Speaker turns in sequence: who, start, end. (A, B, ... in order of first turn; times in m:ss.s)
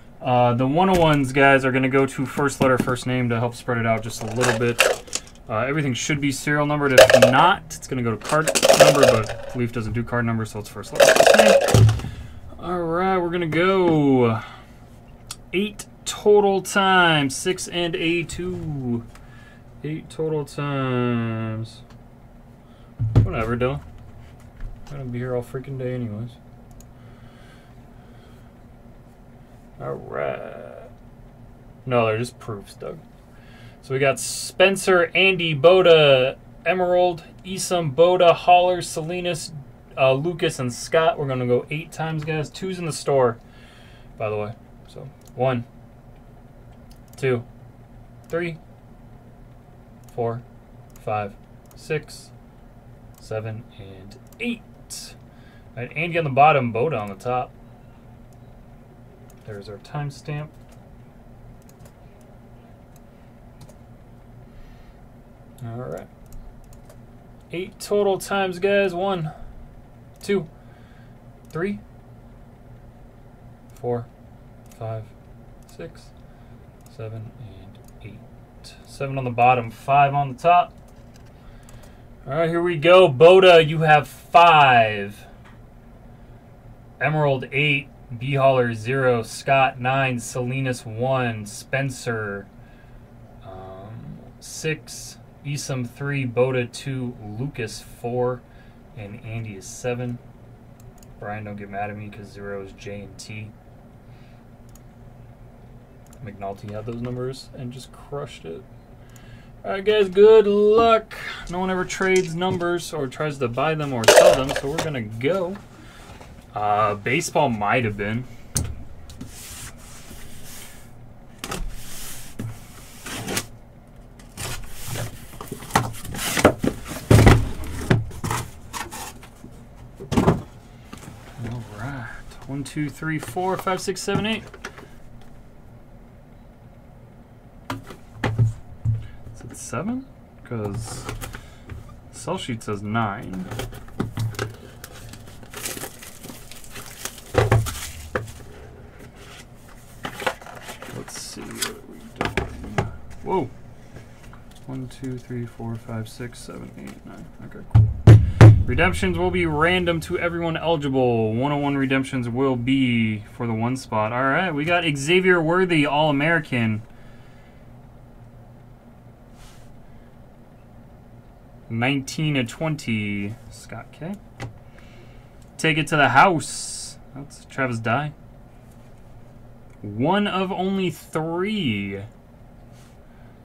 0:00.2-0:11.8 A
0:12.6-0:14.5 A
0:15.5-0:19.1 A
0:19.8-0:21.8 A
0:23.2-0:23.8 A
0:24.9-0:26.4 A
0:29.8-0:30.9 A
0:31.8-0:33.0 A
0:33.8-0:43.4 A
0:44.2-0:45.7 A
0:47.2-0:47.5 A
0:48.3-0:48.6 A
0:50.1-0:50.4 A
0:51.0-0:52.3 A
0:53.2-0:55.2 A
0:55.8-0:57.5 A
0:59.4-1:00.5 A
1:05.6-1:06.1 A
1:07.5-1:09.3 A
1:10.2-1:10.5 A
1:11.5-1:11.8 A
1:13.7-1:14.1 A
1:14.7-1:15.1 A
1:15.7-1:16.1 A
1:16.9-1:20.7 A
1:22.3-1:25.3 A
1:27.0-1:32.5 A
1:33.4-1:40.2 A
1:41.2-1:43.5 A
1:46.2-1:48.7 A
1:49.6-1:55.6 A
1:56.5-1:58.3 A
2:11.4-2:14.5 A
2:19.3-2:21.1 A
2:22.1-2:23.5 A
2:30.9-2:33.5 A
2:34.7-2:46.8 A
2:51.7-2:54.2 A
2:55.6-2:58.1 A
2:59.8-3:02.1 A